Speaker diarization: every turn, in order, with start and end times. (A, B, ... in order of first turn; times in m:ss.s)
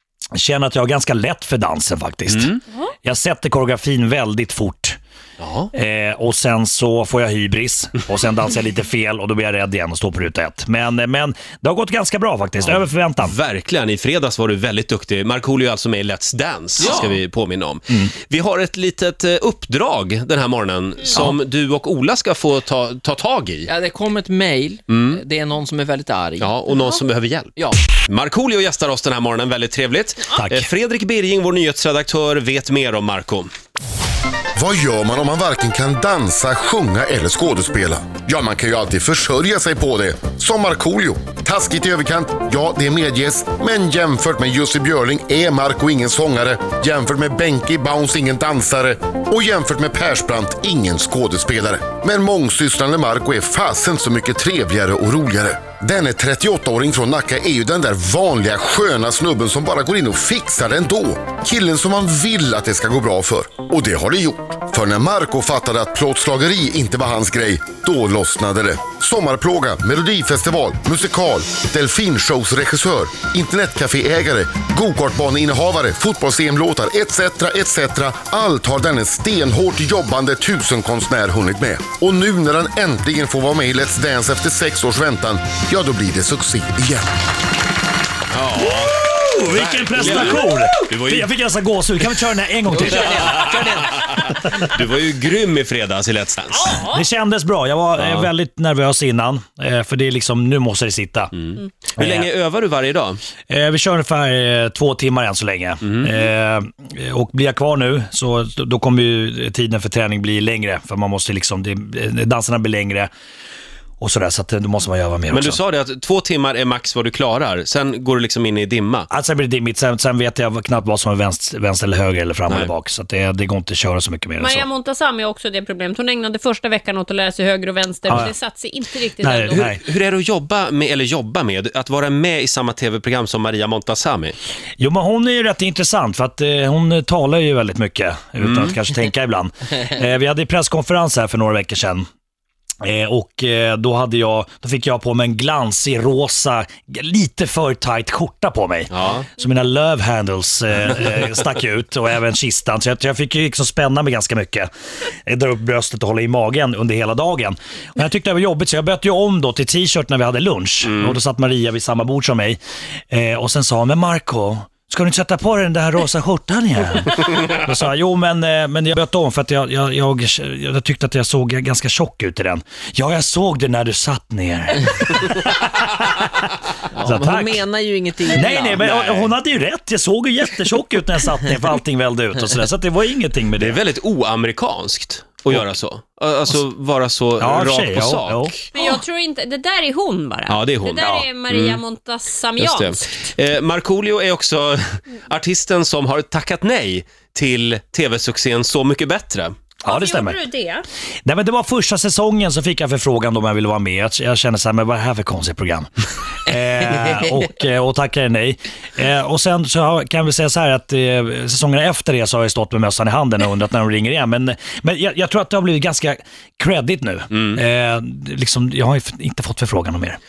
0:00.3-0:05.0 A
0:02.3-0:02.6 B
0:05.4-0:05.7 B
0:05.7-0:13.4 A
0:12.6-0:23.7 B
0:16.8-0:17.2 C
0:23.6-0:26.5 C
0:24.9-0:25.2 B
0:26.4-0:33.5 B
0:30.3-0:30.7 A
0:34.6-1:27.1 D
1:28.3-1:31.3 B
1:28.6-1:33.5 A
1:32.7-1:34.3 C
1:33.2-1:36.8 B
1:36.6-1:36.9 E
1:36.7-1:41.3 A
1:38.0-1:38.2 B
1:41.4-1:43.2 B
1:42.0-1:42.3 A
1:43.5-1:53.1 A
1:54.0-1:55.6 A
1:55.3-1:59.1 B
1:59.1-2:04.7 A
2:04.4-2:09.6 E
2:09.2-2:09.8 A
2:09.5-2:14.4 B
2:14.8-2:22.0 A
2:18.4-2:18.7 B
2:22.8-2:34.7 A
2:28.9-2:29.2 B
2:35.2-2:57.6 A
2:40.8-2:41.2 B
2:56.9-2:59.3 C
2:58.3-3:03.8 A
3:03.6-3:08.7 B
3:07.4-3:08.5 A
3:08.7-3:13.2 E
3:10.5-3:11.8 B
3:11.0-3:11.2 A
3:12.6-3:19.5 B
3:19.8-3:20.4 A
3:19.8-3:20.8 E
3:21.2-3:25.9 A
3:26.4-3:40.2 A
3:37.3-3:37.6 B